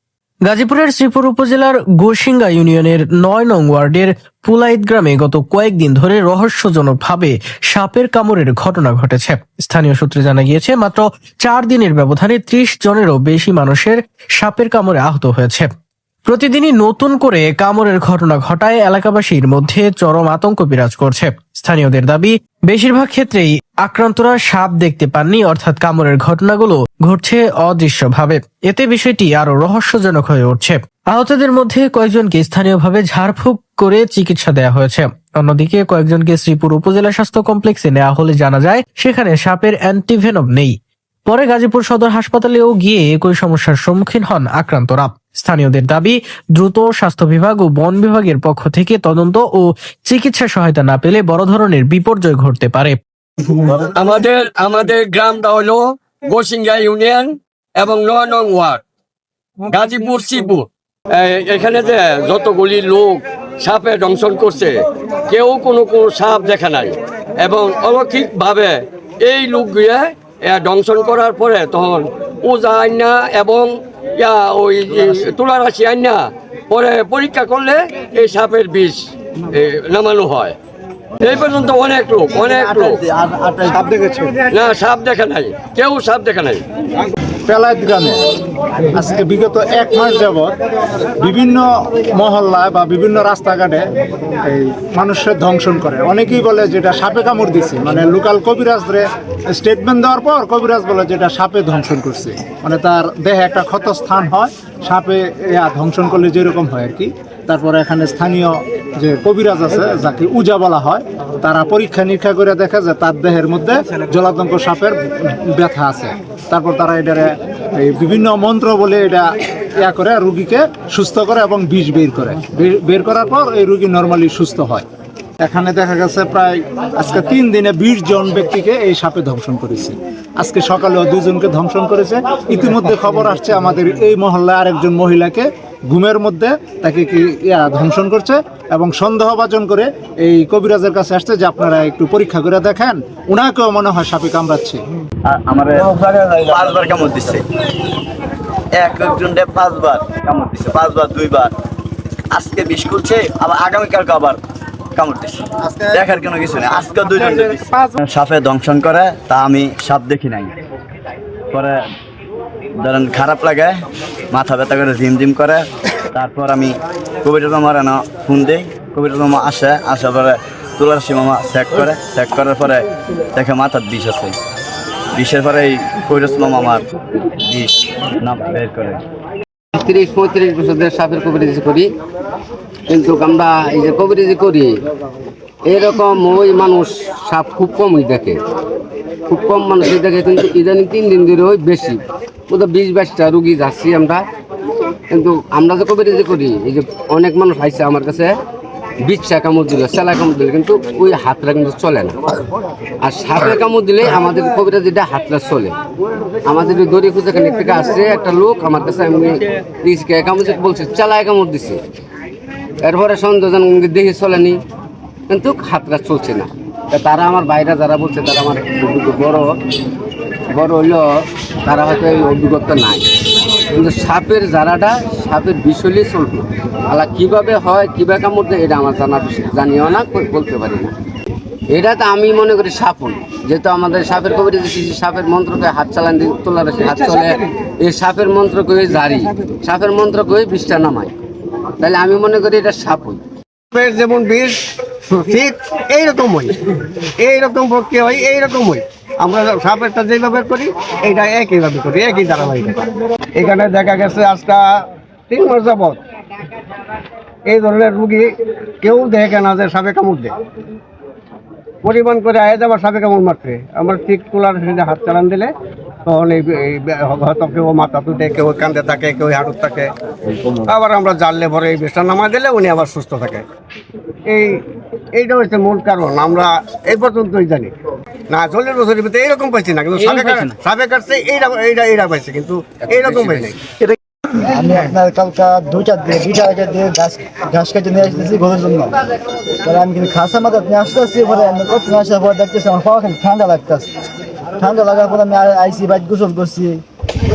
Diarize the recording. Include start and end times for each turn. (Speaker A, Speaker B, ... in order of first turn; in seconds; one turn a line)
Speaker A: 0.5-15.7
Speaker A: 16.3-40.7
Speaker A: 41.2-53.0
Speaker B: 53.8-58.8
Speaker B: 59.7-80.5
Speaker B: 81.2-83.0
Speaker C: 82.5-83.8
Speaker D: 83.7-84.4
Speaker B: 84.5-86.6
Speaker D: 87.5-88.2
Speaker D: 88.9-90.5
Speaker D: 91.2-93.9
Speaker D: 94.4-124.8
Speaker D: 125.4-144.8
Speaker C: 145.2-147.4
Speaker C: 148.7-151.5
Speaker C: 152.3-154.4
Speaker C: 154.9-160.5
Speaker C: 161.5-161.8
Speaker C: 162.8-163.8
Speaker C: 164.3-174.3
Speaker C: 175.1-176.8
Speaker C: 177.4-179.0
Speaker E: 179.7-181.9
Speaker E: 182.9-184.7
Speaker E: 185.7-188.4
Speaker E: 189.3-194.2
Speaker E: 195.1-198.3
Speaker E: 199.0-202.2
Speaker E: 203.0-205.7
Speaker E: 206.4-211.8
Speaker E: 212.8-214.6
Speaker E: 215.3-219.5
Speaker E: 220.5-221.0
Speaker E: 221.6-223.1
Speaker E: 223.7-230.9
Speaker E: 231.7-241.1
Speaker E: 241.8-243.2
Speaker F: 243.7-246.6
Speaker F: 247.2-252.8
Speaker F: 253.3-256.0
Speaker F: 257.4-260.4
Speaker F: 261.8-265.5
Speaker F: 266.1-269.9
Speaker F: 270.6-273.4
Speaker F: 274.3-274.6
Speaker F: 275.1-277.7
Speaker F: 278.3-283.6
Speaker C: 280.2-280.5
Speaker G: 284.6-288.9
Speaker G: 289.6-293.9
Speaker G: 294.6-296.8